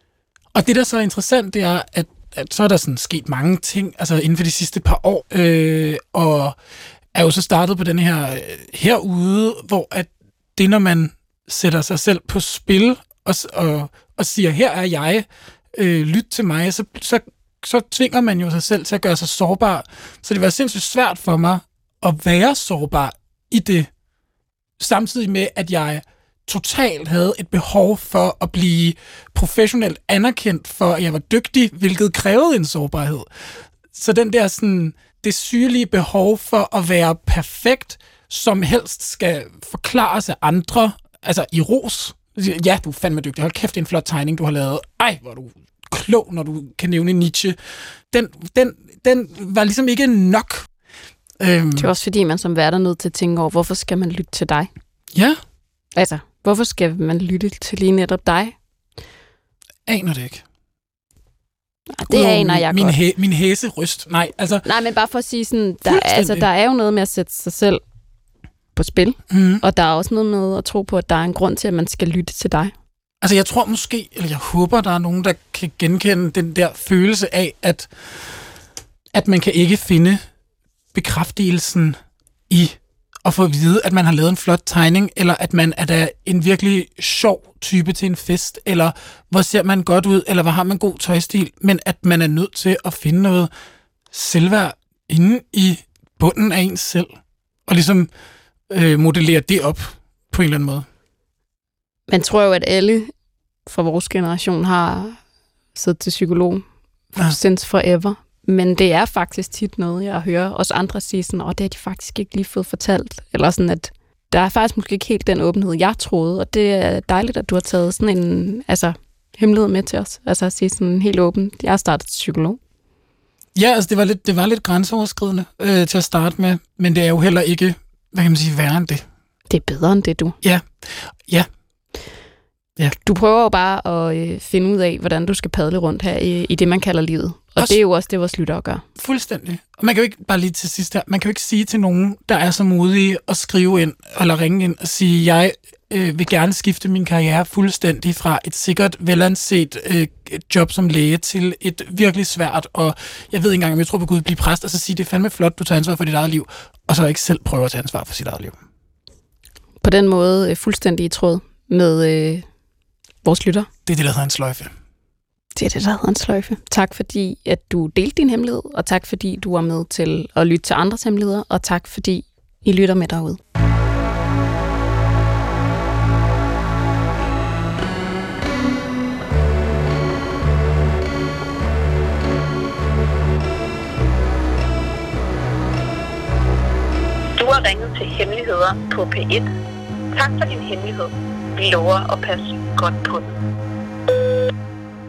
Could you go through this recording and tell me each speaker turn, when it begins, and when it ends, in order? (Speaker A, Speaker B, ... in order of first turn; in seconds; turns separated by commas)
Speaker A: 0.5-6.5, Speaker A: 7.1-23.9, Speaker A: 24.8-33.3, Speaker A: 33.9-47.6, Speaker A: 48.1-50.7, Speaker A: 51.4-51.9, Speaker B: 51.8-54.7, Speaker A: 55.1-55.4, Speaker B: 55.9-58.5, Speaker A: 59.9-60.4, Speaker B: 61.9-63.0, Speaker A: 62.1-64.7, Speaker B: 64.6-67.8, Speaker A: 65.8-66.5, Speaker B: 68.7-72.7, Speaker A: 69.3-69.6, Speaker A: 73.2-78.5, Speaker A: 79.1-80.2, Speaker A: 80.9-93.5, Speaker A: 94.1-97.1, Speaker A: 97.7-98.1, Speaker A: 98.7-100.9, Speaker B: 102.1-103.1, Speaker B: 103.7-105.2, Speaker B: 105.7-122.6, Speaker A: 123.5-129.0, Speaker B: 129.5-130.3, Speaker A: 130.4-131.5, Speaker B: 133.0-138.8, Speaker A: 138.9-158.6, Speaker B: 159.8-162.4, Speaker B: 163.2-163.7, Speaker A: 163.8-164.7, Speaker B: 165.6-173.4, Speaker C: 187.3-189.5, Speaker C: 190.1-193.3